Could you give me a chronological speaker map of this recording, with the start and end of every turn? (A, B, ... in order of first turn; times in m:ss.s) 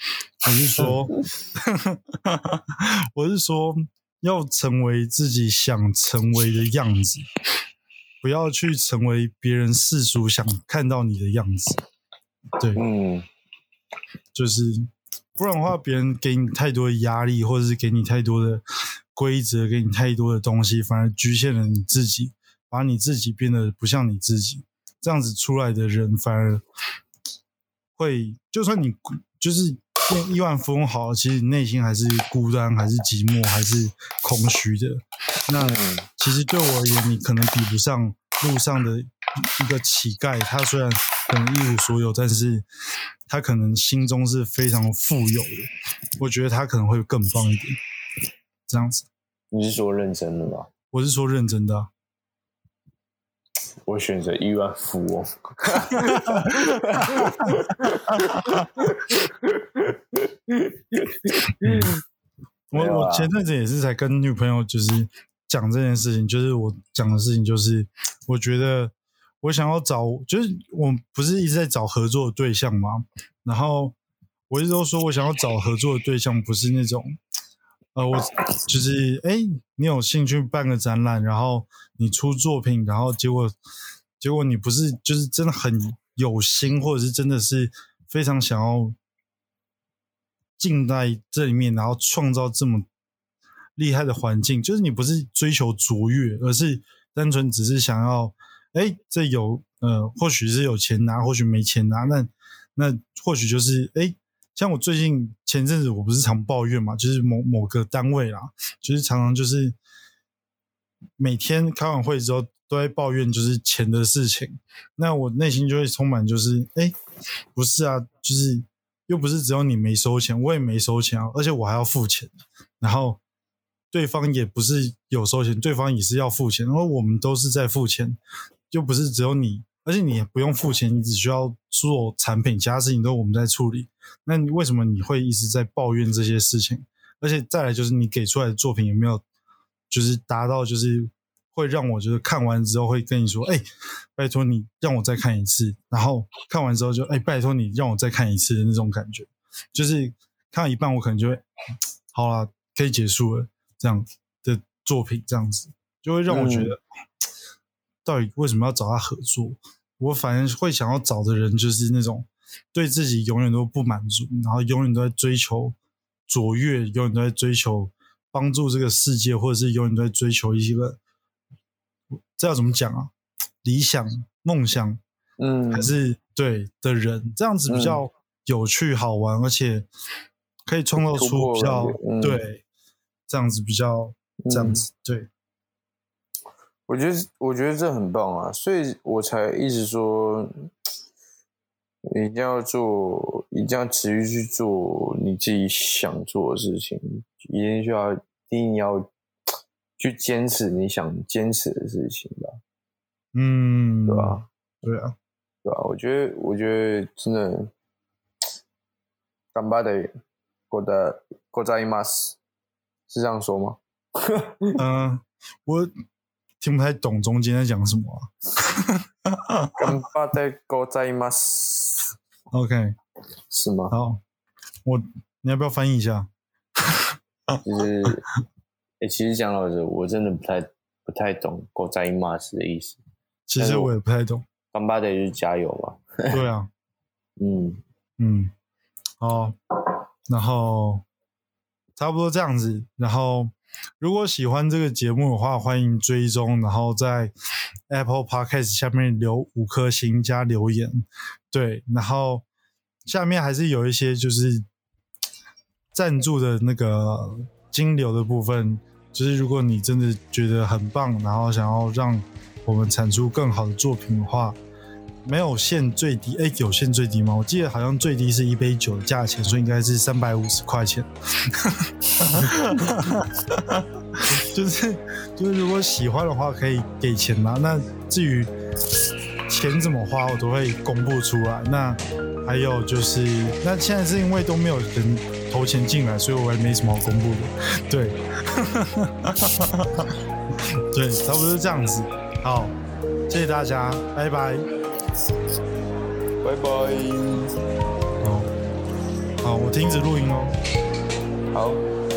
0:00.4-0:07.3 A
0:00.8-0:01.0 B
0:08.2-0:11.8 A
0:12.8-0:13.3 B
0:14.3-0:18.6 A
0:19.1-0:26.6 A
0:28.0-0:42.7 A
0:35.6-0:36.1 B
0:43.3-0:45.7 A
0:46.2-0:47.8 A
0:48.7-0:49.1 A
0:49.5-0:50.7 B
0:50.9-0:51.9 A
0:53.9-1:02.0 B
0:56.1-0:57.6 A
1:01.6-1:01.9 A
1:02.7-1:14.0 A
1:02.7-1:03.3 B
1:14.5-1:17.2 A
1:18.0-1:23.5 A
1:24.2-1:29.0 A
1:30.6-1:32.9 A
1:33.8-1:49.8 A
1:51.2-1:57.0 A
1:57.6-2:03.2 A
2:03.9-2:08.2 A
2:08.7-2:19.2 A
2:19.9-2:23.6 A
2:24.2-2:31.4 A
2:32.1-2:36.8 A
2:36.3-2:36.8 B
2:38.0-2:45.8 A
2:46.3-2:51.0 A
2:52.4-2:53.1 A
2:53.6-2:55.0 A
2:55.4-2:55.9 B
2:55.7-2:59.9 A
2:57.7-2:58.0 B
3:00.7-3:02.6 A
3:01.0-3:02.4 B
3:03.3-3:05.3 A
3:04.4-3:04.8 B
3:06.9-3:10.5 B
3:12.1-3:19.1 B
3:20.0-3:22.6 B
3:23.4-3:25.2 A
3:24.1-3:24.5 B
3:25.6-3:27.7 B
3:29.5-3:30.1 B
3:30.7-3:32.4 B
3:33.1-3:34.8 B
3:34.8-3:35.9 A
3:36.6-3:39.9 A
3:39.8-3:42.1 B
3:42.5-3:43.0 A
3:43.5-3:44.0 B
3:43.9-3:44.2 A
3:44.8-3:46.3 A
3:46.9-3:47.6 A
3:47.6-3:48.3 B
3:49.0-3:53.0 B
3:53.5-3:54.5 A
3:53.6-3:53.9 B
3:54.7-3:56.4 B
3:56.3-3:56.7 A
3:57.4-3:57.8 B
3:58.2-3:58.5 A
3:59.2-3:59.6 A
4:00.3-4:01.0 A
4:02.0-4:07.3 A
4:07.9-4:12.4 A
4:13.1-4:14.6 A
4:15.9-4:24.6 A
4:25.2-4:38.5 A
4:39.5-4:50.1 A
4:50.9-4:52.7 A
4:53.3-4:54.7 A
4:56.4-4:57.5 B
4:58.2-4:58.5 A
4:59.4-5:00.5 A
5:01.5-5:01.8 B